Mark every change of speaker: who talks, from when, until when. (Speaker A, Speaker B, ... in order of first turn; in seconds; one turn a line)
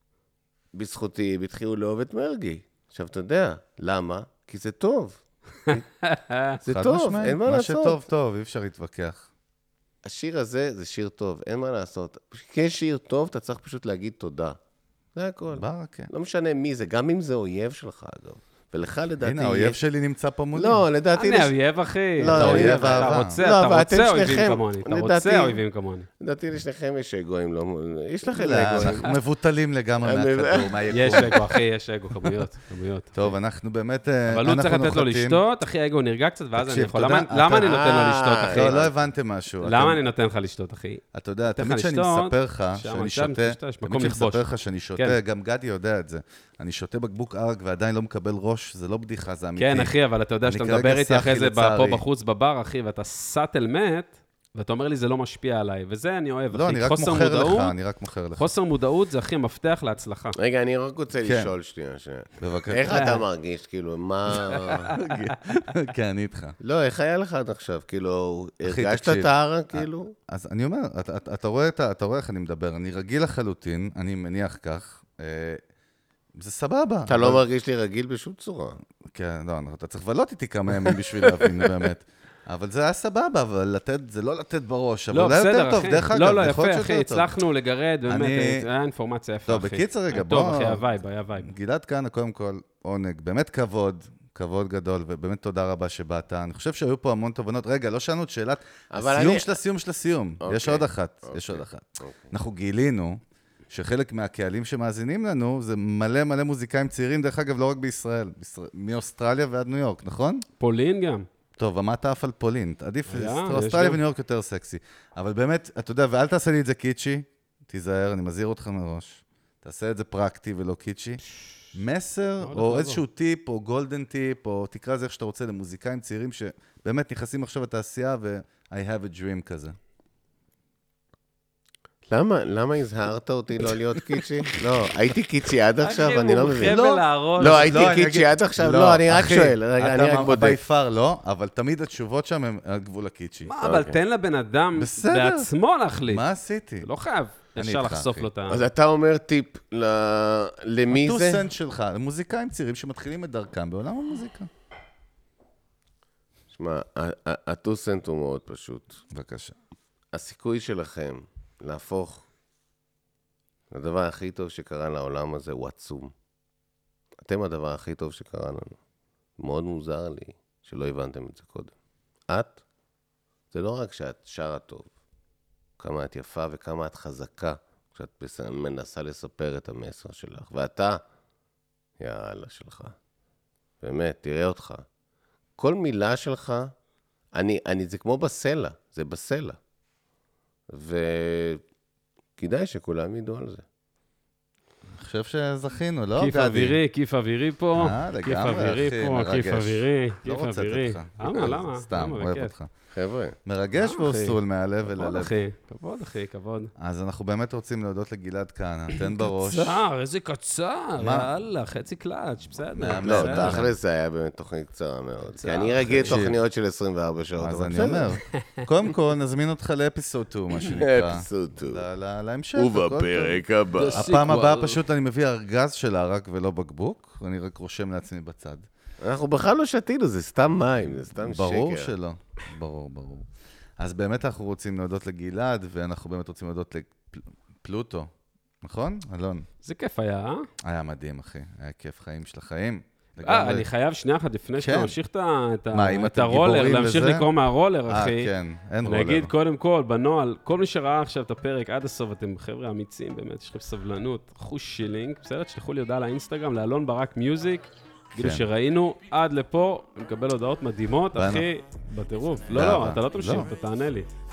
Speaker A: 0.8-5.9
Speaker B: 6.0-6.6
Speaker A: 6.6-8.0
Speaker C: 6.7-9.3
Speaker A: 10.1-14.6
Speaker A: 15.2-19.8
Speaker C: 15.5-16.1
Speaker C: 19.2-20.8
Speaker A: 20.6-21.5
Speaker B: 21.1-26.1
Speaker A: 22.2-25.6
Speaker C: 22.3-23.4
Speaker A: 26.2-29.1
Speaker C: 28.3-31.4
Speaker A: 30.0-31.4
Speaker B: 30.9-33.3
Speaker C: 33.1-35.4
Speaker B: 34.3-38.8
Speaker C: 36.6-37.8
Speaker A: 37.6-38.9
Speaker C: 38.5-40.0
Speaker B: 39.6-45.2
Speaker C: 41.1-52.0
Speaker B: 49.6-57.8
Speaker C: 56.5-58.5
Speaker B: 58.4-60.4
Speaker A: 60.4-64.9
Speaker C: 61.2-61.5
Speaker C: 62.4-63.0
Speaker C: 64.9-66.6
Speaker A: 66.6-70.1
Speaker C: 68.6-75.6
Speaker C: 76.3-77.4
Speaker A: 77.1-78.8
Speaker C: 79.1-87.3
Speaker B: 85.1-91.5
Speaker C: 88.1-88.7
Speaker C: 89.5-90.9
Speaker C: 91.4-110.5
Speaker A: 98.9-99.6
Speaker A: 100.4-102.3
Speaker B: 110.6-111.3
Speaker C: 111.6-121.2
Speaker B: 113.1-114.0
Speaker C: 121.7-129.8
Speaker B: 122.4-123.0
Speaker A: 132.1-136.8
Speaker B: 135.8-137.7
Speaker C: 136.7-143.5
Speaker A: 137.4-140.6
Speaker B: 143.5-146.3
Speaker A: 143.6-144.0
Speaker C: 144.8-145.5
Speaker C: 146.1-146.9
Speaker B: 146.8-148.7
Speaker C: 147.6-148.3
Speaker A: 148.5-151.4
Speaker C: 150.9-154.5
Speaker A: 156.5-159.0
Speaker C: 159.1-159.6
Speaker A: 160.1-162.2
Speaker A: 163.7-166.1
Speaker A: 167.2-168.8
Speaker A: 169.4-171.7
Speaker A: 172.3-172.6
Speaker A: 173.5-174.9
Speaker A: 175.8-181.0
Speaker A: 182.0-182.9
Speaker A: 183.8-184.9
Speaker A: 185.6-186.7
Speaker A: 187.3-189.6
Speaker A: 190.7-191.6
Speaker A: 192.4-193.6
Speaker C: 194.9-196.8
Speaker B: 196.2-202.5
Speaker C: 197.8-202.7
Speaker A: 202.9-203.4
Speaker C: 203.4-205.3
Speaker B: 203.8-206.7
Speaker C: 206.8-209.8
Speaker B: 208.9-213.6
Speaker C: 211.0-211.3
Speaker C: 212.7-213.7
Speaker A: 213.0-218.1
Speaker B: 215.4-216.2
Speaker C: 215.9-216.4
Speaker C: 217.4-228.7
Speaker A: 220.7-221.8
Speaker A: 222.6-224.0
Speaker B: 223.8-224.8
Speaker A: 229.0-231.9
Speaker C: 230.9-238.1
Speaker C: 238.6-239.5
Speaker B: 239.6-240.5
Speaker C: 240.6-243.7
Speaker B: 243.2-248.3
Speaker C: 244.6-244.9
Speaker C: 245.7-247.3
Speaker C: 247.9-249.3
Speaker B: 248.8-264.1
Speaker C: 258.2-258.5
Speaker C: 261.1-261.5
Speaker C: 262.5-263.5